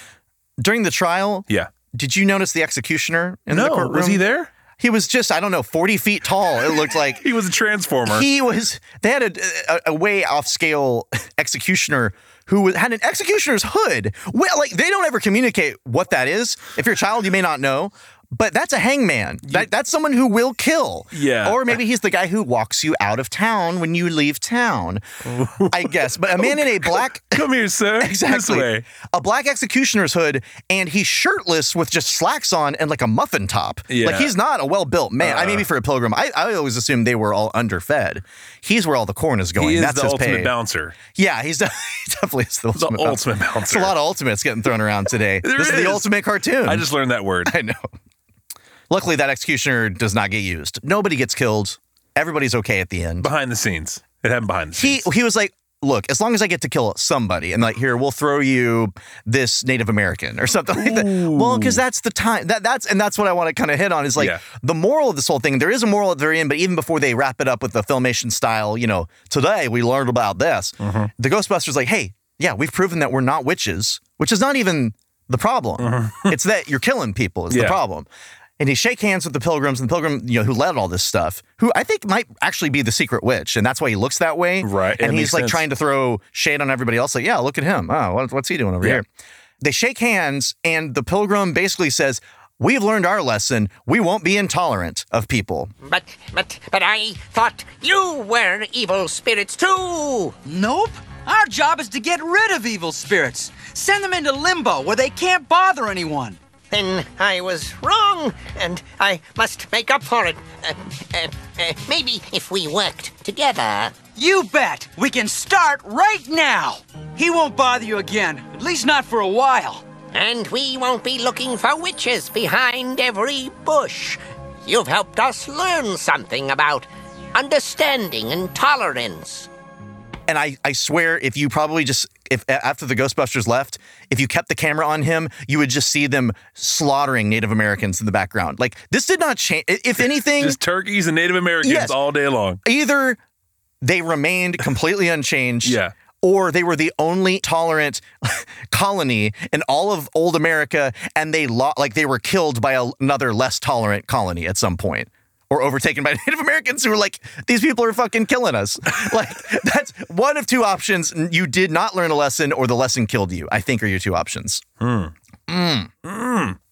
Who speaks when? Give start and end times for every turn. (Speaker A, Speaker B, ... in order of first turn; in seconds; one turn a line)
Speaker A: 0.6-4.2
Speaker B: 3.5-4.5
Speaker A: 4.8-7.2
Speaker B: 7.2-8.3
Speaker A: 8.1-25.0
Speaker B: 21.1-21.8
Speaker B: 25.2-28.8
Speaker A: 25.7-27.5
Speaker A: 28.0-40.5
Speaker B: 33.9-34.3
Speaker B: 35.2-35.7
Speaker B: 39.6-41.0
Speaker A: 41.1-46.9
Speaker B: 42.7-43.9
Speaker B: 45.4-46.1
Speaker B: 46.6-47.5
Speaker A: 47.5-47.9
Speaker A: 48.9-53.3
Speaker B: 53.2-55.1
Speaker A: 54.7-78.1
Speaker B: 60.7-61.8
Speaker B: 64.2-64.4
Speaker B: 70.8-71.1
Speaker B: 75.8-76.4
Speaker B: 77.5-77.8
Speaker A: 78.6-89.0
Speaker B: 84.6-85.7
Speaker A: 89.6-95.7
Speaker C: 95.8-100.3
Speaker D: 100.4-106.4
Speaker C: 106.7-114.0
Speaker D: 114.1-119.8
Speaker C: 120.1-129.5
Speaker A: 130.3-140.6
Speaker B: 140.4-142.6
Speaker A: 141.6-142.0
Speaker A: 142.6-143.2
Speaker A: 143.8-164.6
Speaker B: 145.6-145.9
Speaker B: 164.8-165.1
Speaker A: 165.5-165.9
Speaker B: 166.0-166.6